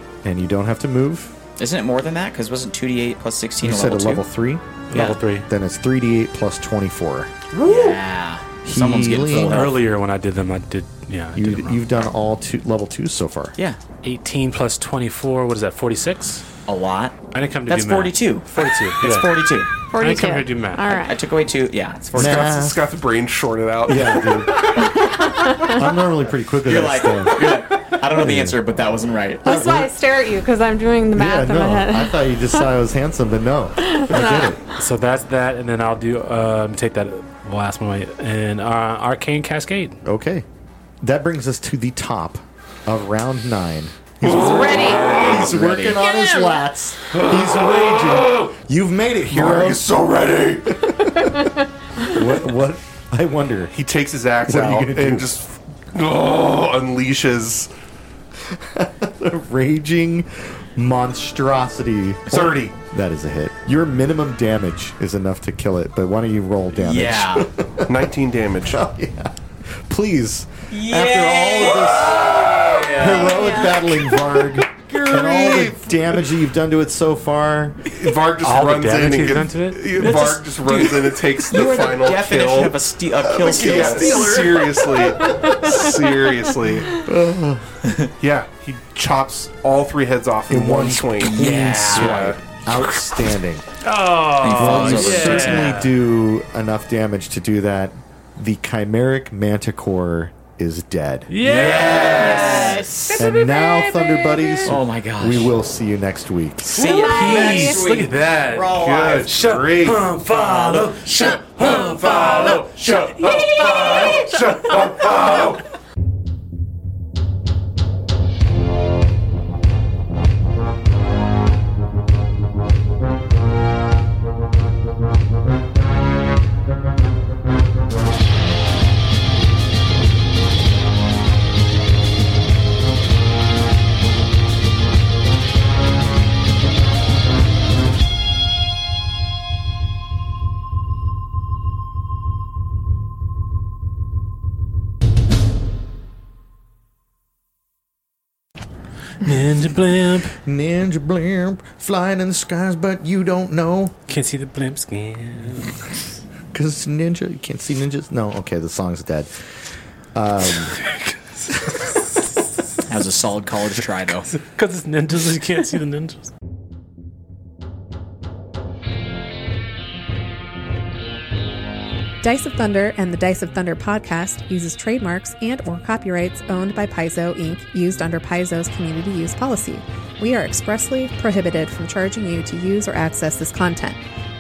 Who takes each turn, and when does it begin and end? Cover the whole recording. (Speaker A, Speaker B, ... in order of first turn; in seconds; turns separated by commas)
Speaker A: 0.2-1.3, Speaker B: 1.6-4.3, Speaker A: 3.6-4.7, Speaker C: 4.9-5.5, Speaker B: 4.9-5.2, Speaker A: 5.5-7.3, Speaker D: 7.5-8.0, Speaker B: 7.6-9.8, Speaker A: 8.6-9.7, Speaker C: 9.3-11.8, Speaker A: 11.3-13.6, Speaker C: 14.0-16.4, Speaker B: 16.7-19.7, Speaker C: 17.3-19.3, Speaker E: 19.9-21.2, Speaker C: 20.0-21.0, Speaker B: 20.9-22.7, Speaker D: 22.1-24.7, Speaker A: 22.1-22.9, Speaker A: 23.9-28.6, Speaker E: 25.0-25.8, Speaker B: 26.6-29.4, Speaker A: 29.4-29.9, Speaker E: 29.4-32.4, Speaker A: 31.1-34.6, Speaker E: 33.8-34.6, Speaker C: 34.8-40.0, Speaker A: 40.0-40.5, Speaker A: 41.0-53.7, Speaker D: 44.2-45.5, Speaker B: 44.2-46.0, Speaker E: 44.4-45.1, Speaker D: 47.2-48.1, Speaker D: 49.3-50.8, Speaker D: 53.7-57.7, Speaker A: 54.5-55.3, Speaker A: 58.4-68.1, Speaker B: 62.3-62.6, Speaker D: 62.3-62.7, Speaker B: 66.8-67.5, Speaker D: 67.9-68.8, Speaker A: 68.7-77.9, Speaker B: 70.7-74.1, Speaker D: 74.7-75.9, Speaker D: 77.9-82.8, Speaker C: 78.4-79.9, Speaker B: 79.9-84.6, Speaker D: 83.3-87.0, Speaker A: 83.4-85.8, Speaker A: 86.9-87.8, Speaker D: 88.2-92.4, Speaker A: 90.5-93.7, Speaker B: 91.2-92.3, Speaker C: 93.8-95.9, Speaker B: 94.4-95.8, Speaker A: 94.5-101.3, Speaker C: 101.3-103.2, Speaker B: 101.4-103.2, Speaker E: 102.1-104.6, Speaker A: 103.2-107.0, Speaker B: 104.7-105.5, Speaker B: 106.7-109.3, Speaker C: 106.8-114.2, Speaker E: 106.8-107.8, Speaker D: 108.7-110.1, Speaker B: 110.3-114.3, Speaker D: 111.7-115.6, Speaker C: 149.2-150.4, Speaker A: 150.4-153.9, Speaker C: 154.1-156.0, Speaker A: 156.5-159.3, Speaker A: 160.2-160.8, Speaker C: 160.8-162.0, Speaker B: 162.9-164.3, Speaker C: 164.3-166.3, Speaker F: 172.2-184.0